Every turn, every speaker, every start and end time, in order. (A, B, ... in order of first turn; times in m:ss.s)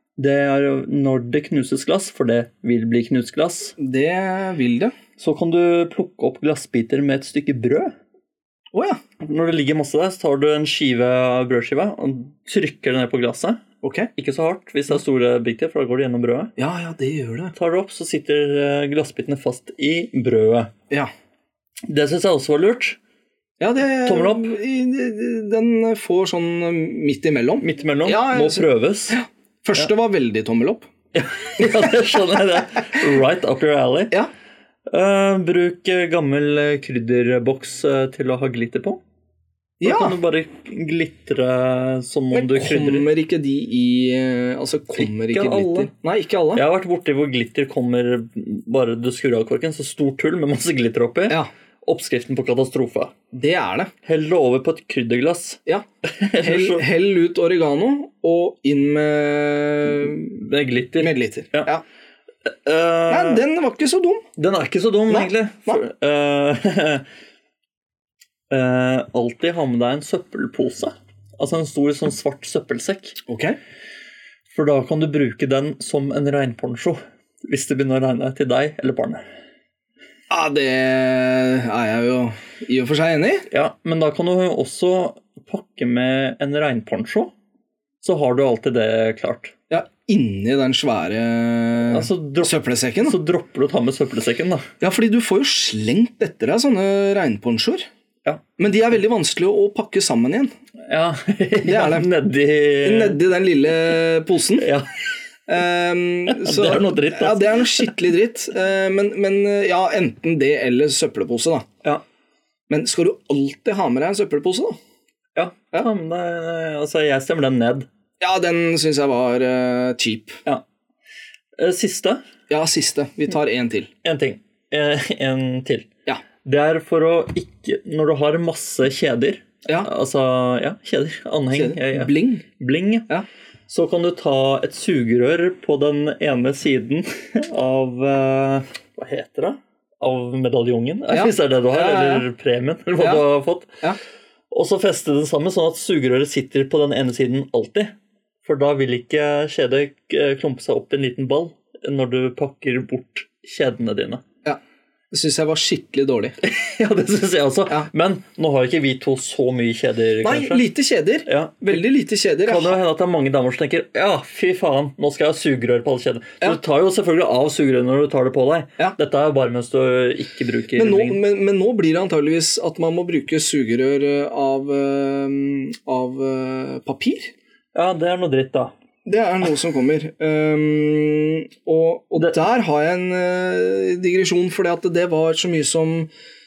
0:00.2-0:03.8 A
0:03.8-0:04.9 B
0:05.2-0:08.0 A
0:08.7-0:09.0 B
0:09.2-0:13.6 A
0:13.8-0:14.1 B
0:14.2-0:16.5 A
0:16.6-0:17.5 B
0:17.5-0:20.7 A
0:21.9-0:23.0 A
0:23.6-0:30.9 B
0:24.0-0:24.5 A
0:27.6-0:29.2 A
0:31.1-0:34.2 A
0:31.6-0:32.0 B
0:34.9-0:39.0 A
0:39.8-0:40.2 B
0:39.8-0:43.1 A
0:42.3-0:46.6 B
0:45.0-0:45.9 A
0:46.5-0:53.1 A
0:53.3-0:53.9 B
0:54.0-0:56.8 A
0:56.4-1:00.3 B
1:00.2-1:01.7 A
1:01.0-1:01.8 B
1:02.5-1:03.4 A
1:03.1-1:04.2 B
1:04.4-1:07.0 A
1:05.1-1:05.8 B
1:08.5-1:13.2 A
1:13.3-1:13.6 B
1:14.5-1:19.2 A
1:20.3-1:23.5 B
1:23.5-1:27.3 A
1:28.0-1:29.6 A
1:29.7-1:33.2 B
1:31.9-1:34.7 A
1:34.8-1:37.9 B
1:38.6-1:40.5 B
1:40.9-1:43.2 A
1:41.6-1:42.1 B
1:42.8-1:44.7 B
1:44.6-1:44.9 A
1:45.5-1:51.7 B
1:46.3-1:48.0 A
1:52.7-1:54.8 B
1:55.4-1:57.9 A
1:58.2-2:00.4 B
2:01.6-2:02.3 A
2:02.5-2:03.9 B
2:04.0-2:05.9 A
2:06.4-2:13.1 A
2:11.5-2:12.4 B
2:13.7-2:23.8 A
2:21.1-2:22.3 B
2:24.5-2:34.2 A
2:35.1-2:36.4 B
2:36.4-2:40.6 A
2:40.2-2:42.8 B
2:41.3-2:41.8 A
2:42.4-2:51.2 A
2:50.8-2:57.3 B
2:57.8-2:58.7 A
2:59.1-3:06.1 B